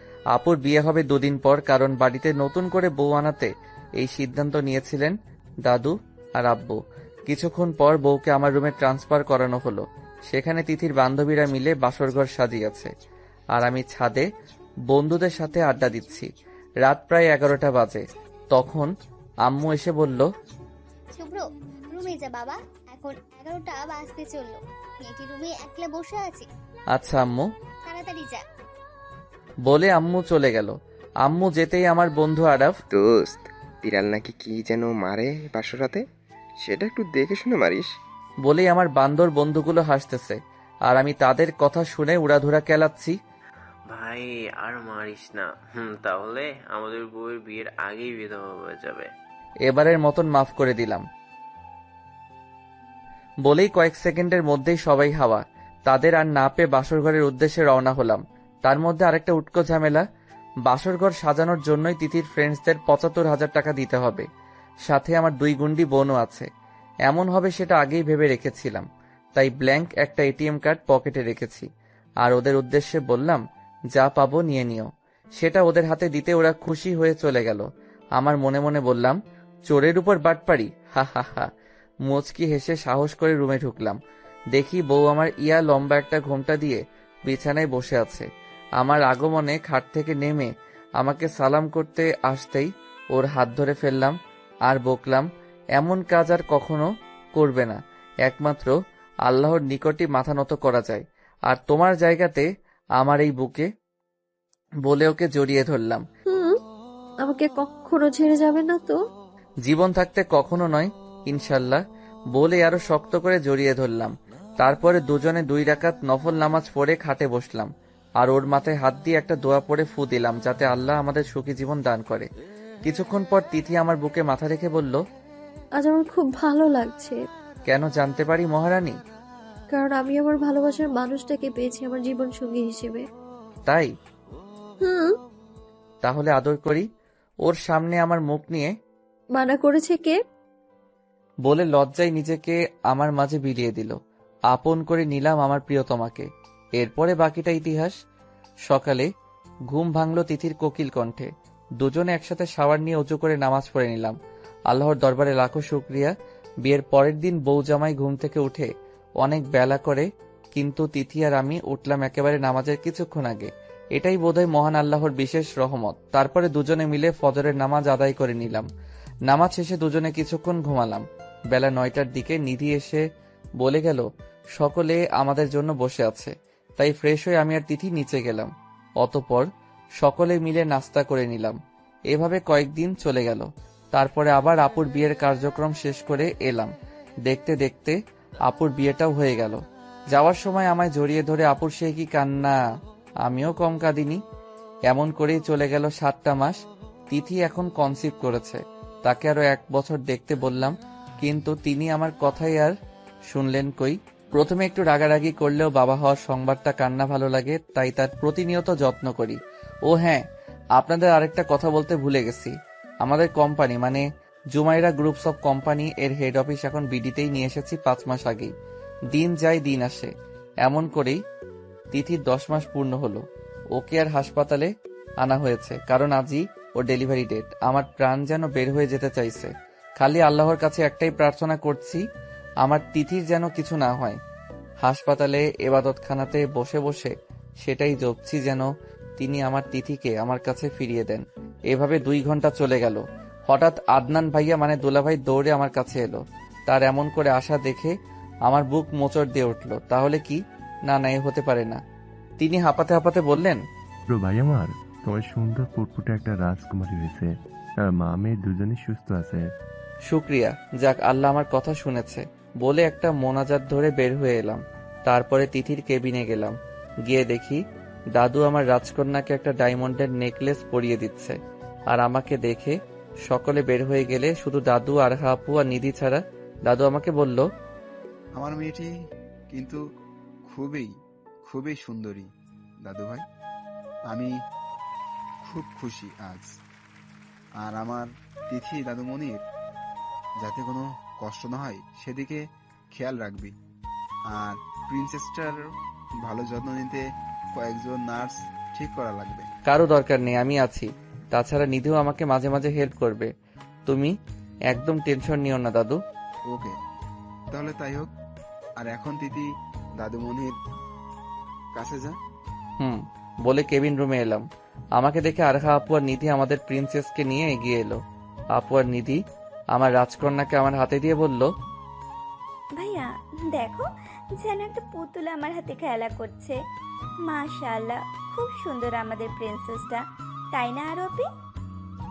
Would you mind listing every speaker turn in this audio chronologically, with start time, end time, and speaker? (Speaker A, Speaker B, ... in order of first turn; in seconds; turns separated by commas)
Speaker A: 0.3-12.9, Speaker A: 13.5-14.3, Speaker A: 14.9-16.3, Speaker A: 16.8-18.9, Speaker A: 19.4-20.3, Speaker B: 21.1-26.5, Speaker A: 26.9-27.5, Speaker B: 27.9-28.4, Speaker A: 29.7-32.8, Speaker C: 32.9-36.0, Speaker C: 36.6-37.9, Speaker A: 38.4-43.2, Speaker D: 43.9-49.1, Speaker A: 49.7-51.0, Speaker A: 53.5-60.0, Speaker A: 60.6-64.3, Speaker A: 64.9-66.5, Speaker A: 67.1-71.7, Speaker A: 72.2-77.7, Speaker A: 78.2-79.2, Speaker A: 79.7-81.5, Speaker A: 82.1-84.0, Speaker A: 84.5-88.3, Speaker A: 88.8-94.2, Speaker A: 94.7-102.5, Speaker A: 103.0-103.7, Speaker A: 104.9-106.0, Speaker E: 106.3-106.6, Speaker E: 107.2-109.0, Speaker A: 109.6-111.8, Speaker A: 112.3-122.3, Speaker A: 122.8-125.0, Speaker E: 125.8-127.2, Speaker A: 127.7-129.0, Speaker E: 129.7-133.1, Speaker E: 134.8-135.1, Speaker A: 136.0-136.8, Speaker A: 137.4-138.7, Speaker E: 139.4-140.2, Speaker A: 141.4-144.0, Speaker A: 144.5-146.3, Speaker A: 146.8-148.0, Speaker A: 148.7-149.1, Speaker A: 149.7-154.2, Speaker A: 154.7-156.1, Speaker A: 156.6-168.7, Speaker A: 169.3-173.0, Speaker A: 173.6-174.1, Speaker A: 174.6-179.5, Speaker A: 180.0-181.6, Speaker A: 182.1-186.7, Speaker A: 187.3-192.6, Speaker A: 193.2-194.2, Speaker A: 194.9-202.8, Speaker A: 203.3-210.2, Speaker A: 210.8-218.5, Speaker A: 219.1-220.1, Speaker A: 220.6-221.2, Speaker A: 221.9-223.2, Speaker A: 223.8-224.7, Speaker A: 225.2-232.0, Speaker A: 232.6-234.2, Speaker A: 234.8-247.9, Speaker A: 248.5-251.8, Speaker A: 252.4-253.6, Speaker F: 254.1-259.5, Speaker A: 260.1-267.6, Speaker A: 268.1-271.4, Speaker A: 271.9-277.5, Speaker G: 278.4-278.9, Speaker G: 279.5-279.8, Speaker G: 280.5-280.9, Speaker G: 281.5-282.3, Speaker G: 282.8-283.2, Speaker G: 285.4-286.5, Speaker G: 287.6-289.4, Speaker G: 290.4-292.4, Speaker G: 292.9-293.5, Speaker G: 294.3-295.6, Speaker G: 296.2-297.0, Speaker G: 297.5-299.5, Speaker A: 299.7-303.3, Speaker A: 303.9-304.1, Speaker A: 304.7-306.0, Speaker G: 306.5-306.7, Speaker G: 307.5-308.1, Speaker G: 308.8-309.5, Speaker G: 310.0-310.5, Speaker G: 311.7-312.2, Speaker A: 312.8-314.4, Speaker A: 315.0-318.0, Speaker A: 318.5-319.2, Speaker A: 319.7-321.5, Speaker H: 322.8-326.6, Speaker H: 327.2-331.3